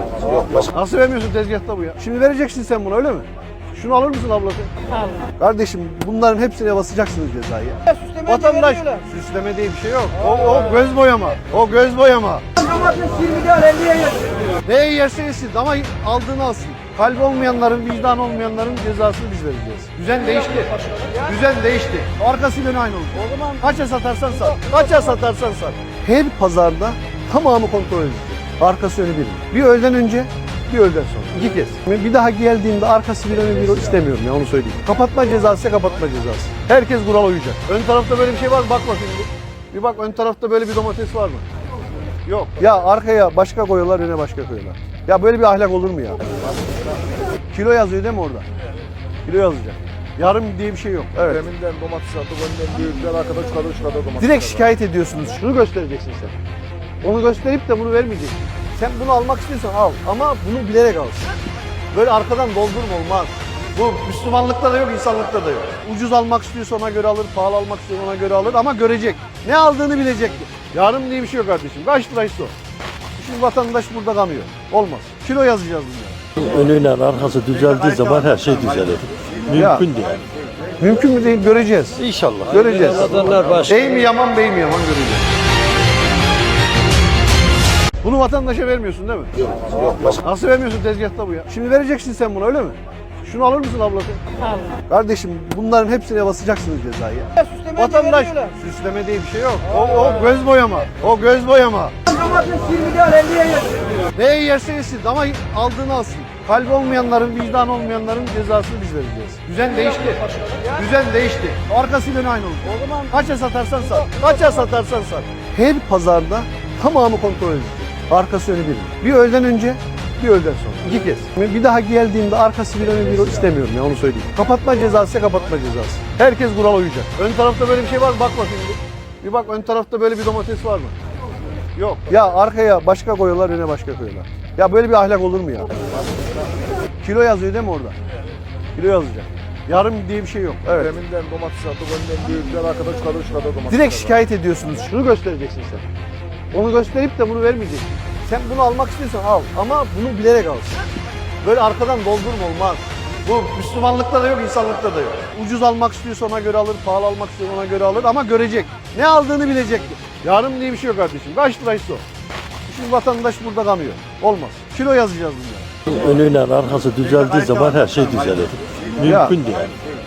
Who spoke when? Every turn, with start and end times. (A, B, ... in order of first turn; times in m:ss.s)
0:00.4-0:04.7 A
0:05.4-0:12.6 A
0:13.0-0:14.1 B
0:14.6-0:41.4 A
0:42.2-0:46.2 A
0:47.5-0:48.4 A
0:49.2-0:51.4 A
0:51.2-0:54.7 C
0:54.2-0:56.3 A
0:57.0-1:01.2 A
1:01.9-1:12.5 A
1:13.2-1:16.2 A
1:16.4-1:20.2 D
1:19.5-1:19.8 A
1:20.8-1:25.3 A
1:22.0-1:23.7 D
1:28.0-1:34.2 A
1:34.9-1:42.0 A
1:42.3-1:43.6 B
1:44.1-2:10.9 A
2:11.8-2:15.7 A
2:17.0-2:18.0 A
2:18.8-2:21.0 A
2:20.7-2:24.2 C
2:23.7-2:25.8 A
2:26.5-2:30.8 A
2:31.4-2:42.0 A
2:42.7-2:45.7 A
2:45.8-2:49.7 D
2:49.0-2:49.4 A